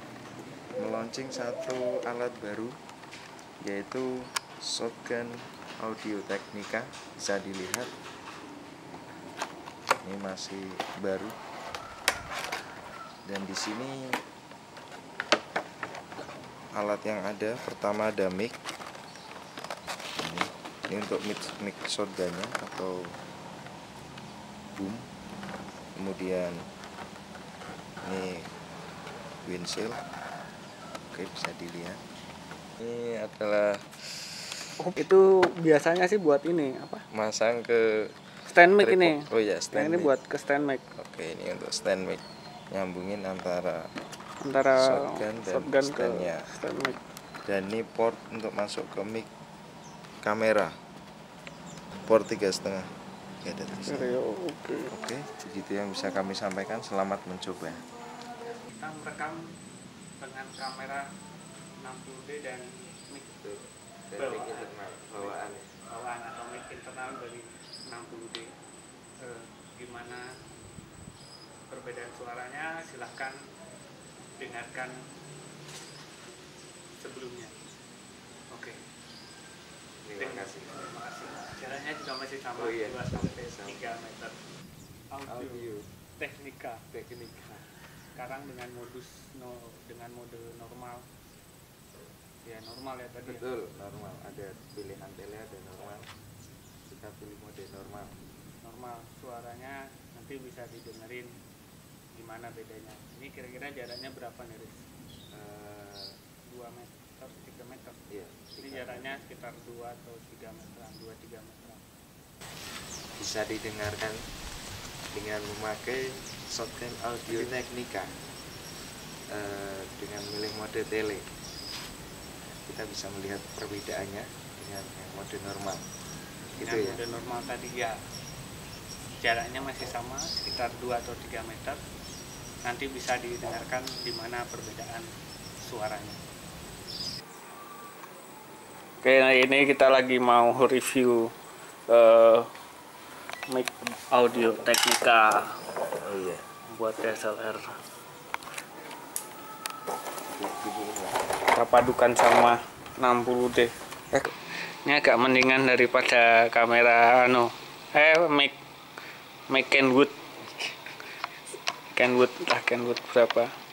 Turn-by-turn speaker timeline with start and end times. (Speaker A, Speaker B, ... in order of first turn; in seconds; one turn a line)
Speaker A: 0.8-2.7
Speaker A: 3.6-4.0
Speaker A: 4.7-7.9
Speaker A: 10.0-11.3
Speaker A: 13.2-14.0
Speaker A: 16.8-18.6
Speaker A: 20.2-23.0
Speaker A: 24.8-25.0
Speaker A: 25.9-26.6
Speaker A: 28.0-28.4
Speaker A: 29.4-30.0
Speaker A: 31.1-32.0
Speaker A: 32.8-33.8
Speaker B: 34.8-37.0
Speaker A: 37.1-38.1
Speaker B: 38.5-39.2
Speaker A: 38.8-40.1
Speaker B: 39.7-40.8
Speaker A: 41.0-43.9
Speaker B: 44.4-47.0
Speaker A: 44.8-46.4
Speaker A: 47.5-49.3
Speaker A: 50.2-50.7
Speaker A: 52.0-52.9
Speaker A: 53.4-54.1
Speaker B: 53.8-54.9
Speaker A: 54.9-57.8
Speaker B: 58.7-59.4
Speaker B: 60.2-61.0
Speaker B: 61.8-63.3
Speaker A: 63.4-65.7
Speaker B: 64.2-68.5
Speaker B: 69.2-70.3
Speaker B: 71.7-73.3
Speaker B: 74.4-74.9
Speaker B: 77.0-77.5
Speaker A: 80.0-80.9
Speaker B: 80.2-84.3
Speaker A: 82.5-83.8
Speaker B: 85.1-86.8
Speaker A: 85.3-85.9
Speaker A: 86.9-87.7
Speaker B: 88.1-91.1
Speaker B: 92.4-93.4
Speaker A: 93.2-96.1
Speaker A: 96.9-98.2
Speaker B: 98.6-101.3
Speaker B: 102.1-104.8
Speaker A: 105.3-106.1
Speaker B: 106.4-108.0
Speaker A: 108.1-109.2
Speaker B: 108.6-111.8
Speaker A: 113.2-114.2
Speaker A: 115.1-118.1
Speaker B: 117.3-117.5
Speaker A: 119.3-121.2
Speaker A: 122.7-125.8
Speaker A: 126.5-127.0
Speaker B: 126.6-128.0
Speaker B: 129.2-131.8
Speaker B: 132.6-135.1
Speaker B: 135.6-136.2
Speaker B: 139.0-141.3
Speaker B: 141.9-142.5
Speaker B: 143.5-145.4
Speaker A: 146.0-146.4
Speaker B: 146.7-147.6
Speaker A: 150.3-151.2
Speaker B: 151.5-153.7
Speaker B: 154.8-158.6
Speaker B: 159.5-160.7
Speaker B: 161.9-163.5